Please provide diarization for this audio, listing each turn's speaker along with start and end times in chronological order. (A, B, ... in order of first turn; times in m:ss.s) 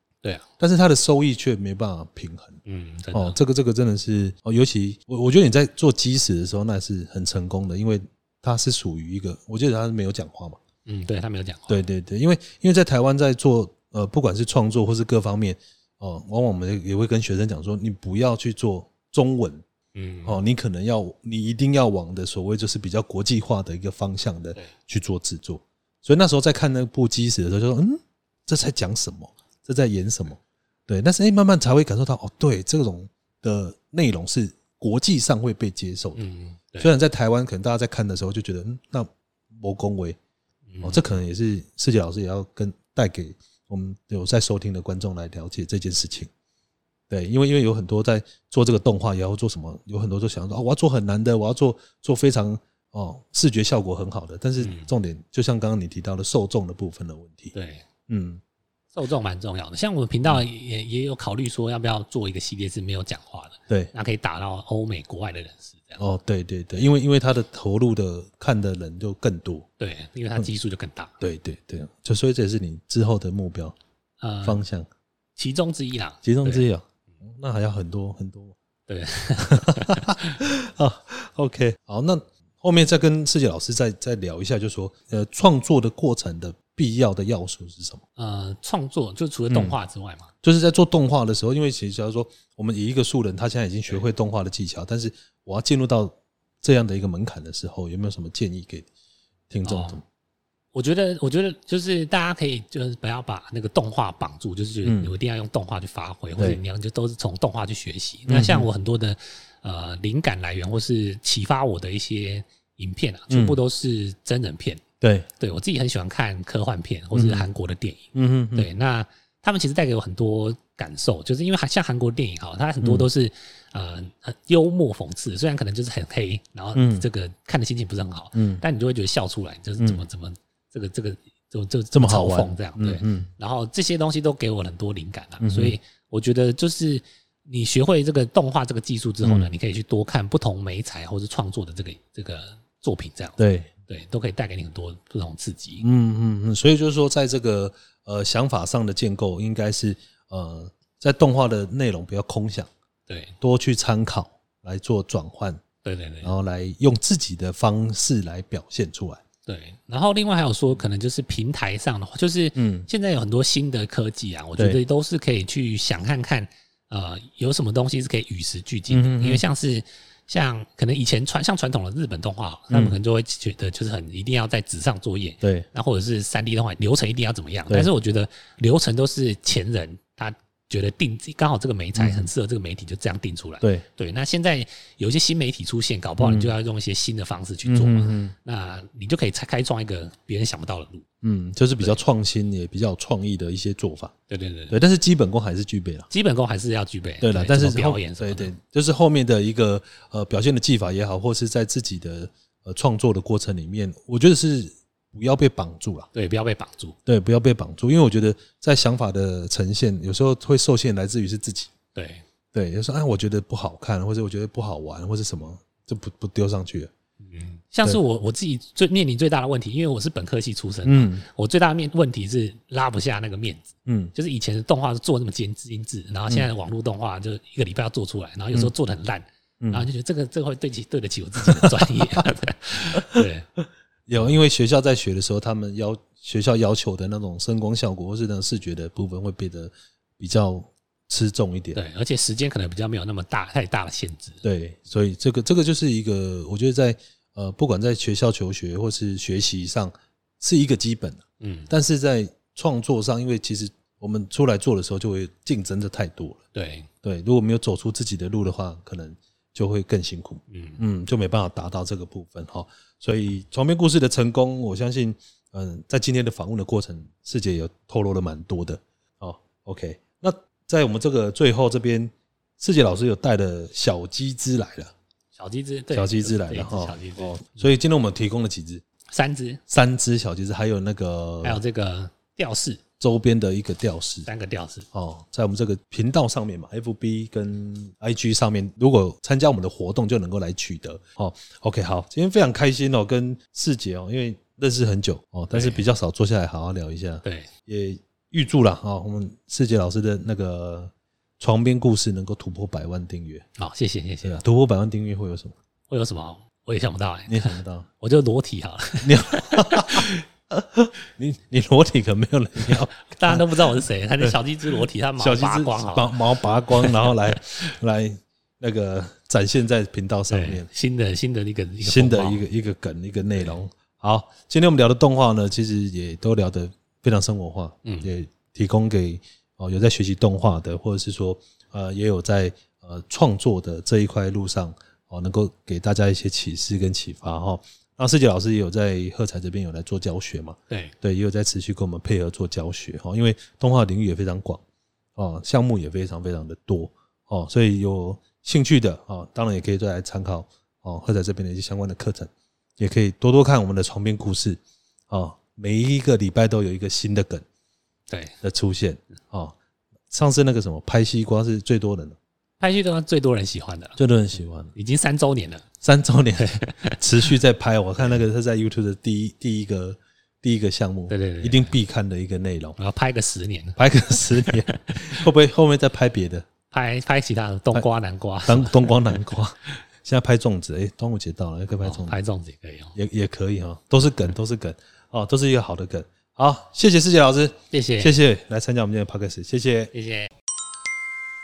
0:00.6-0:02.6 A
0:02.6-0:03.4 B
0:03.1-0:10.6 A
0:10.8-0:11.8 B
0:11.7-0:19.6 A
0:19.9-0:20.4 B
0:20.2-0:36.2 A
0:36.1-0:36.9 B
0:36.8-0:40.2 A
0:40.7-0:41.0 B
0:40.8-0:46.3 A
0:47.1-0:57.5 A
0:54.6-0:54.9 B
0:57.5-0:57.8 B
0:58.1-0:58.4 A
0:58.9-1:06.0 B
1:06.0-1:09.7 A
1:09.8-1:11.1 B
1:11.2-1:13.8 A
1:14.2-1:14.6 B
1:14.4-1:14.9 A
1:15.4-1:16.6 B
1:16.2-1:18.5 A
1:18.9-1:20.4 B
1:19.4-1:28.0 A
1:28.2-1:30.3 B
1:29.5-1:29.8 A
1:30.4-1:38.9 A
1:39.5-1:40.0 A
1:39.6-1:40.0 B
1:40.7-1:54.8 B
1:44.8-1:45.1 A
1:48.3-1:48.7 A
1:53.3-1:53.6 A
1:55.0-1:55.3 A
1:55.4-2:25.8 B
1:57.1-1:57.5 A
1:58.1-1:58.7 A
2:06.7-2:07.0 A
2:08.3-2:08.6 A
2:11.9-2:13.3 A
2:15.4-2:15.8 A
2:19.2-2:19.5 A
2:23.4-2:23.7 A
2:25.8-2:32.7 A
2:33.1-2:33.3 B
2:33.4-2:35.6 A
2:35.8-2:36.3 B
2:36.2-2:39.2 A
2:39.4-3:11.0 B
2:42.5-2:42.9 A
2:48.9-2:49.4 A
2:52.7-2:53.0 A
2:55.4-2:55.7 A
3:02.0-3:02.3 A
3:06.2-3:06.5 A
3:07.6-3:08.3 A
3:11.2-3:14.1 A
3:14.3-3:14.8 B
3:14.7-3:16.1 A
3:16.1-3:18.5 B
3:17.2-3:26.1 A
3:26.1-3:27.0 B
3:27.0-3:31.7 A
3:31.9-3:32.2 B
3:32.5-3:36.9 A
3:37.2-3:53.5 B
3:40.8-3:41.2 A
3:43.8-3:44.1 A
3:49.6-3:49.9 A
3:51.4-3:52.3 A
3:52.9-3:53.2 A
3:54.1-4:01.8 A
4:01.7-4:04.4 B
4:04.4-4:16.4 A
4:11.4-4:11.7 B
4:16.5-4:16.9 B
4:17.0-4:34.9 A
4:20.5-4:20.8 B
4:35.3-4:37.7 B
4:35.9-4:38.8 A
4:39.1-4:39.6 B
4:39.7-4:41.6 A
4:41.4-4:42.8 B
4:43.0-4:44.3 A
4:44.2-4:44.9 B
4:44.9-5:03.5 A
4:55.5-4:55.8 B
4:57.2-4:57.5 B
5:03.6-5:04.4 B
5:04.2-5:05.5 A
5:05.9-5:10.1 B
5:07.3-5:07.9 A
5:09.0-5:13.5 A
5:12.7-5:17.6 B
5:14.2-5:20.7 A
5:20.3-5:22.4 B
5:21.8-5:44.6 A
5:27.8-5:28.1 B
5:45.2-5:57.4 A
5:58.1-5:58.3 B
5:58.4-5:59.6 A
6:00.1-6:02.2 A
6:02.6-6:04.0 B
6:04.0-6:04.7 A
6:04.7-6:05.6 B
6:05.8-6:12.8 A
6:06.4-6:07.0 B
6:11.1-6:11.8 B
6:12.8-6:15.2 B
6:13.8-6:16.5 A
6:16.7-6:19.3 B
6:18.4-6:22.2 A
6:21.8-6:23.0 B
6:22.9-6:29.9 A
6:27.7-6:28.1 B
6:29.9-6:30.3 B